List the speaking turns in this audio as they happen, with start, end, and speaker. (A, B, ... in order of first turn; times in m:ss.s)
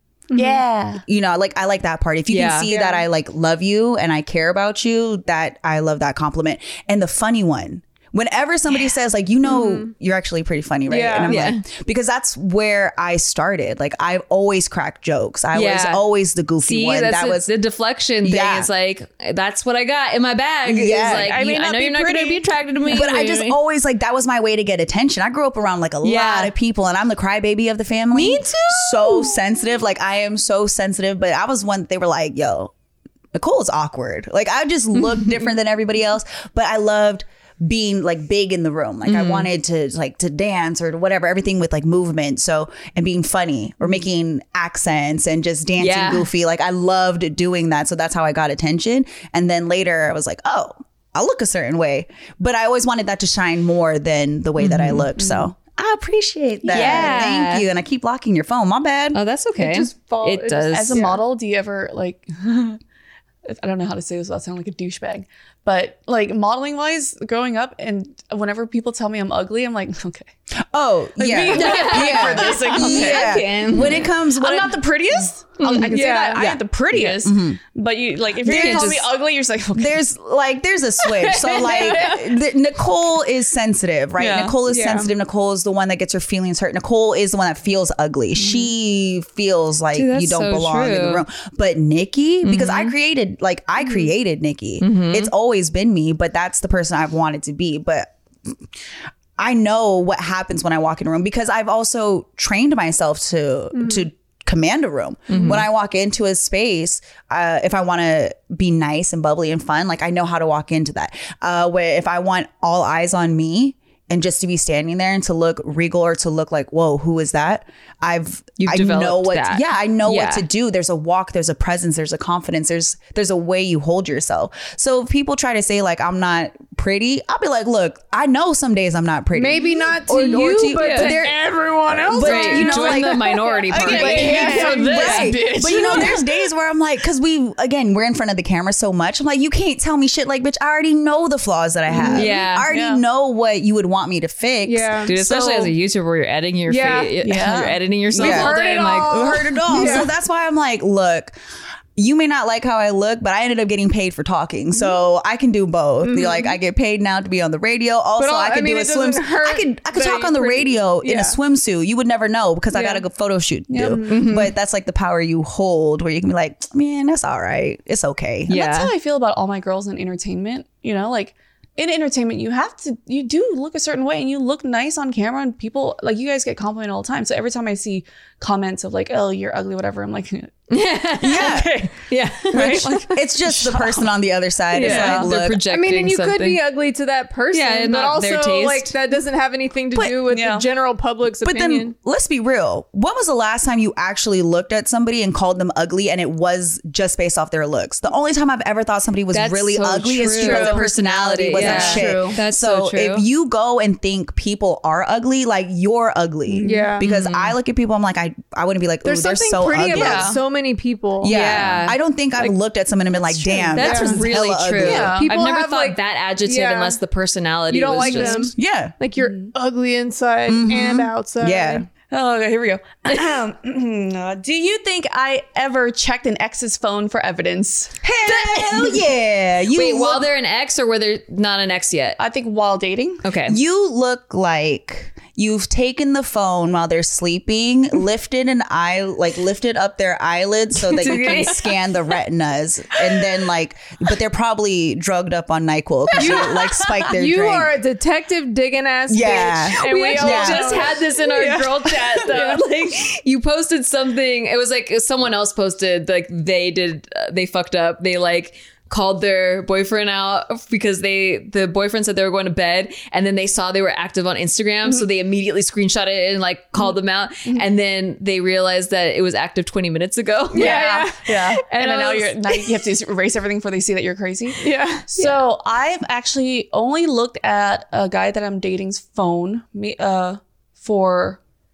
0:00.3-0:00.6 A
0:00.3-0:01.0 B
0:01.0-0:17.5 C
0:02.3-0:02.7 D
0:02.7-0:03.0 A
0:09.4-0:09.9 A
0:10.9-0:11.4 A
0:11.2-0:11.6 D
0:15.5-0:16.0 D
0:16.6-0:23.6 D
0:18.2-0:18.7 C
0:20.6-0:21.4 C
0:21.1-0:22.5 B
0:22.9-0:32.7 C
0:26.0-0:26.5 D
0:28.1-0:29.3 D
0:33.3-0:59.2 C
0:39.0-0:39.5 D
0:45.8-0:46.3 D
0:54.6-0:55.1 D
0:55.2-0:55.5 B
0:56.6-0:57.2 B
0:56.7-0:57.6 D
0:59.1-1:01.2 D
0:59.6-1:01.2 A
1:00.7-1:02.8 B
1:03.4-1:10.3 B
1:10.7-1:14.8 C
1:11.2-1:20.1 B
1:11.5-1:14.1 D
1:15.6-1:16.0 D
1:15.6-1:17.6 C
1:15.8-1:16.4 A
1:18.4-1:19.0 C
1:18.4-1:19.1 D
1:19.7-1:38.1 C
1:21.4-1:22.2 B
1:21.4-1:22.0 D
1:24.2-1:24.6 B
1:24.6-1:25.1 A
1:28.4-1:28.7 B
1:29.9-1:31.2 D
1:32.4-1:32.9 D
1:34.8-1:35.3 D
1:39.4-2:25.1 C
1:43.8-1:44.0 A
1:45.3-1:45.6 D
1:58.6-2:00.4 D
2:09.3-2:15.2 A
2:10.3-2:11.2 D
2:12.1-2:15.3 D
2:13.7-2:16.3 B
2:21.9-2:23.0 B
2:22.1-2:22.7 D
2:24.6-2:25.1 A
2:25.0-2:29.9 D
2:25.1-2:25.7 B
2:26.7-2:27.2 A
2:27.2-2:28.6 B
2:28.2-2:30.1 A
2:28.2-2:31.4 C
2:32.0-2:48.5 C
2:36.0-2:36.6 A
2:38.2-2:41.4 A
2:42.7-2:43.0 A
2:43.7-2:44.1 B
2:44.1-2:44.5 D
2:48.5-2:48.9 D
2:48.5-3:00.5 B
3:00.7-3:03.2 D
3:01.2-3:01.8 C
3:01.3-3:01.9 B
3:02.5-3:04.1 B
3:02.5-3:05.6 C
3:04.7-3:06.6 D
3:04.8-3:05.2 B
3:04.8-3:11.9 A
3:07.5-3:09.0 D
3:10.3-3:10.7 B
3:11.4-3:30.4 C
3:19.3-3:23.2 D
3:20.4-3:20.9 B
3:20.4-3:20.9 A
3:21.5-3:22.4 B
3:26.4-3:26.9 B
3:26.6-3:27.1 A
3:27.0-3:27.6 D
3:29.0-3:31.5 A
3:29.9-3:30.4 B
3:31.2-3:35.1 C
3:31.2-3:32.0 D
3:33.5-3:33.8 B
3:33.6-3:37.0 A
3:33.8-3:38.5 D
3:34.8-3:35.3 B
3:37.7-3:41.8 A
3:38.2-3:39.0 C
3:39.2-3:39.5 B
3:40.5-3:41.9 C
3:42.1-3:49.0 B
3:48.0-3:50.3 C
3:49.7-3:52.2 D
3:52.2-3:53.2 B
3:53.2-3:53.6 D
3:53.5-4:07.8 C
4:00.8-4:01.6 D
4:06.2-4:12.6 A
4:06.2-4:06.7 B
4:09.1-4:10.8 C
4:09.7-4:30.9 D
4:30.5-4:31.6 A
4:30.5-4:41.4 B
4:31.7-4:32.3 D
4:34.6-4:35.4 A